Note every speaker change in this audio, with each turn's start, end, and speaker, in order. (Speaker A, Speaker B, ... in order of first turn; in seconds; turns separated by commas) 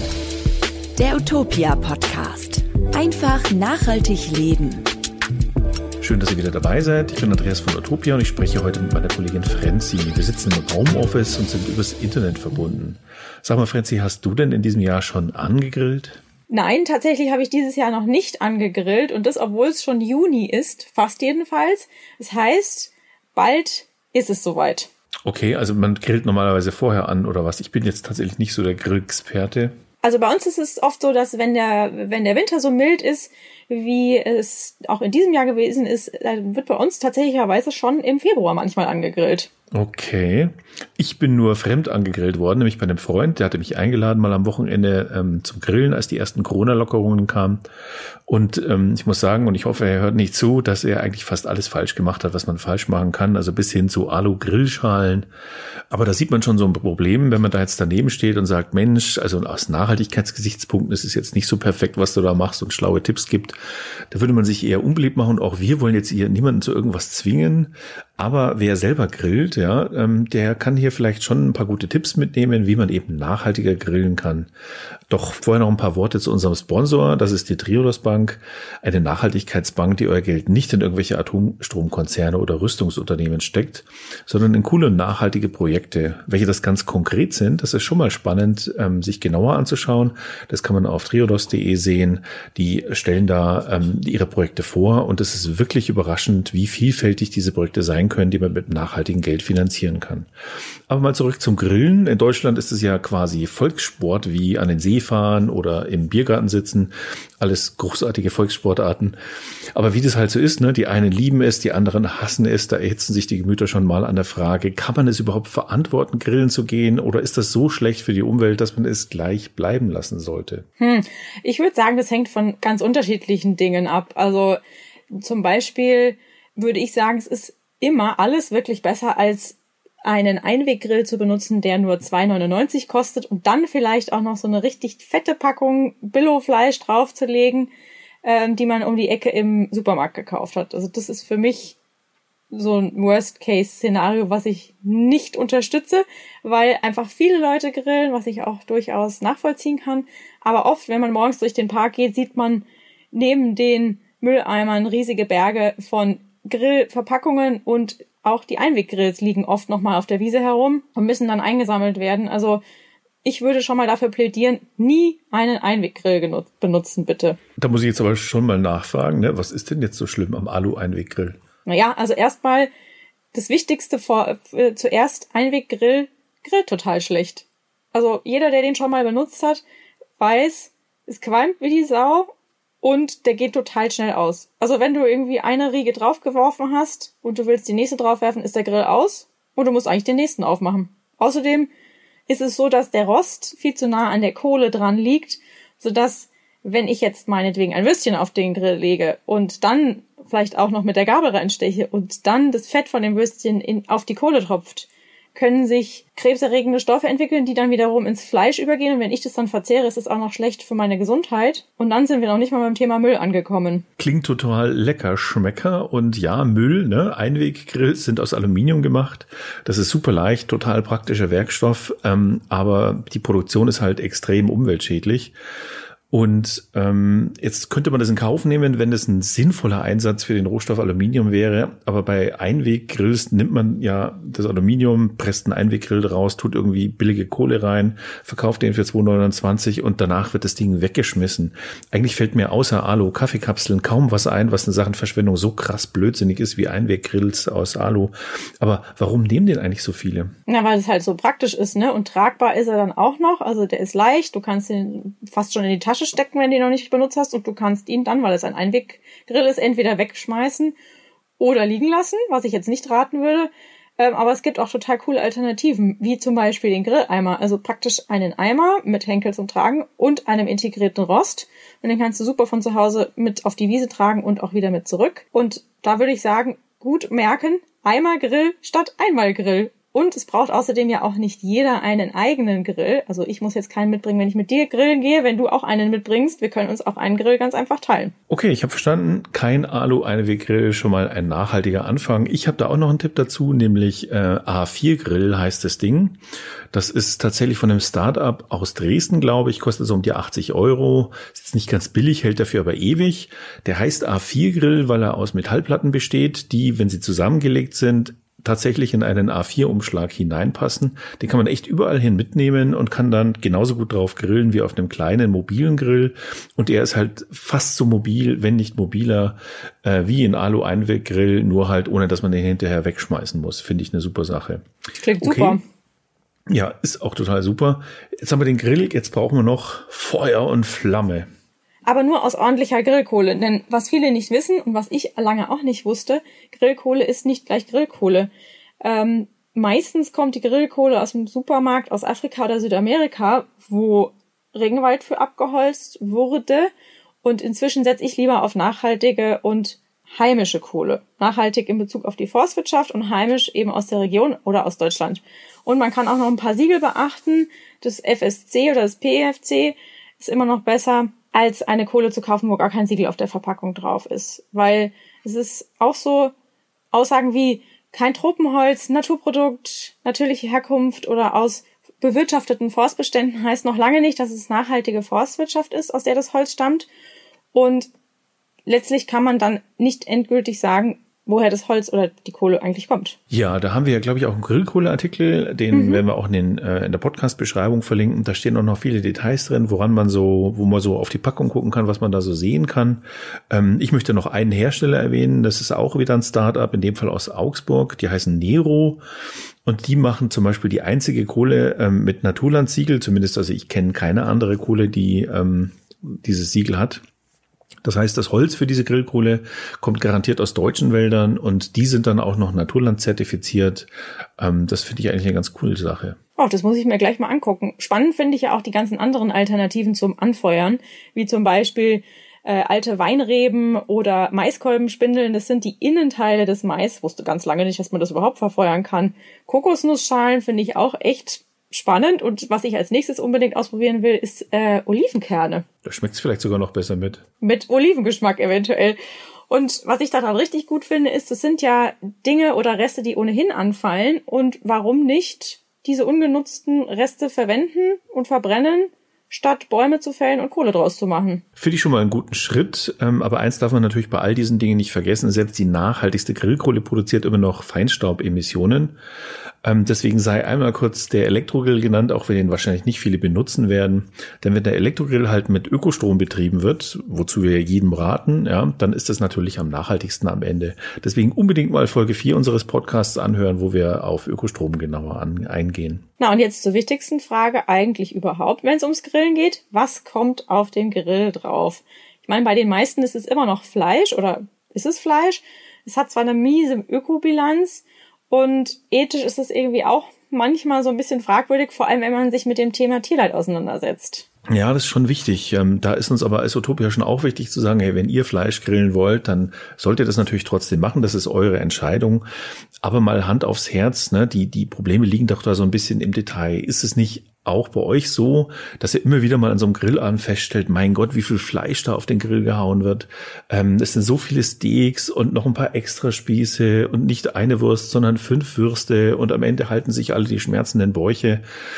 Speaker A: 1.0-4.9, Speaker B: 6.0-16.2, Speaker C: 16.5-24.9, Speaker B: 25.2-29.8, Speaker C: 30.0-39.5, Speaker B: 39.7-47.6, Speaker B: 48.3-55.3, Speaker B: 55.9-63.6, Speaker B: 64.1-74.5, Speaker B: 75.1-100.3, Speaker B: 100.9-109.2, Speaker B: 109.8-120.7, Speaker C: 120.8-137.7, Speaker C: 138.2-141.8, Speaker C: 142.5-162.6, Speaker C: 163.2-167.4, Speaker B: 167.6-171.4, Speaker C: 171.7-172.7, Speaker C: 173.3-179.6, Speaker C: 180.2-182.3, Speaker C: 182.8-191.7, Speaker C: 192.3-213.8, Speaker B: 214.0-225.3, Speaker B: 226.1-250.3, Speaker C: 250.5-260.8, Speaker C: 261.4-288.1, Speaker B: 288.3-296.2, Speaker B: 296.7-324.6, Speaker C: 325.0-325.6, Speaker B: 325.2-325.6, Speaker B: 326.5-331.3, Speaker C: 331.9-338.3, Speaker C: 338.8-346.7, Speaker C: 347.2-366.3, Speaker C: 366.9-376.9, Speaker C: 377.5-377.9, Speaker C: 378.7-383.2, Speaker B: 383.3-399.0, Speaker C: 385.7-386.0, Speaker B: 399.6-407.0, Speaker B: 407.8-413.9, Speaker B: 414.4-416.2, Speaker C: 416.4-435.6, Speaker B: 435.9-437.2, Speaker C: 437.4-451.4, Speaker B: 451.6-458.9, Speaker B: 459.6-476.0, Speaker C: 476.2-494.2, Speaker B: 494.5-502.2, Speaker B: 502.8-521.4